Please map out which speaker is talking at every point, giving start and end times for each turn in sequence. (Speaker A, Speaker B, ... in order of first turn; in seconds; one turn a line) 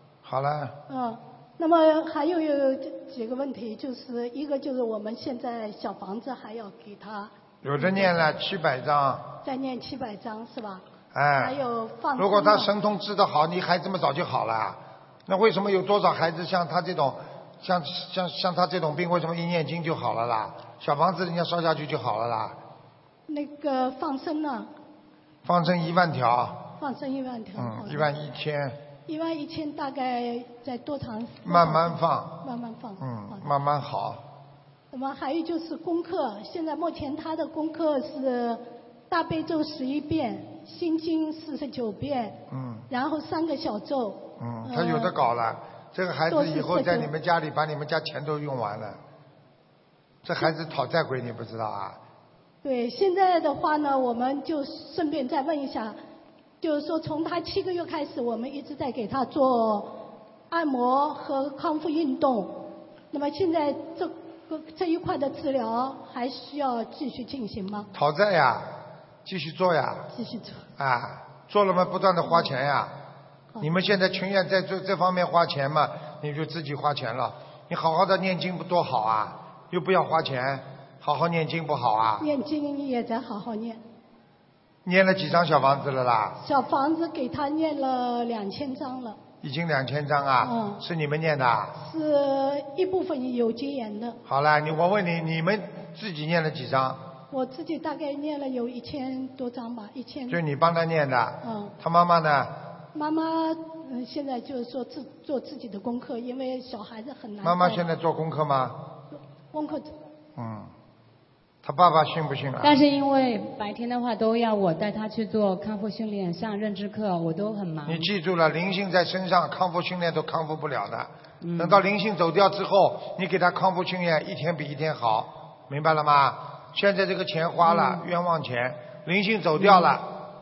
Speaker A: 0.2-0.8
Speaker B: 0.9-8.1
Speaker A: 7.6-9.4
Speaker B: 9.4-10.8
Speaker A: 11.1-11.6
Speaker B: 11.5-12.7
Speaker A: 12.2-22.6
Speaker B: 23.3-24.7
Speaker A: 25.4-26.7
Speaker B: 26.8-28.0
Speaker A: 27.6-28.8
Speaker B: 29.1-33.0
Speaker A: 31.4-32.4
Speaker A: 33.0-34.2
Speaker B: 34.9-42.4
Speaker A: 42.5-42.9
Speaker B: 42.9-44.3
Speaker A: 44.4-49.0
Speaker B: 46.3-47.1
Speaker A: 50.2-52.0
Speaker B: 52.6-56.0
Speaker B: 56.6-67.9
Speaker A: 67.9-70.1
Speaker B: 70.1-70.6
Speaker A: 70.8-73.0
Speaker A: 73.6-82.3
Speaker B: 82.2-83.8
Speaker A: 84.8-86.4
Speaker B: 86.4-89.2
Speaker A: 89.4-91.8
Speaker B: 90.4-90.8
Speaker B: 91.8-94.2
Speaker A: 94.2-97.0
Speaker B: 97.3-100.4
Speaker A: 100.3-102.6
Speaker B: 101.4-101.7
Speaker B: 102.9-107.8
Speaker A: 107.4-108.8
Speaker B: 109.5-109.9
Speaker A: 110.3-110.7
Speaker A: 111.6-112.8
Speaker C: 112.6-118.1
Speaker A: 117.8-130.1
Speaker C: 121.4-121.8
Speaker C: 127.6-128.0
Speaker C: 129.6-129.9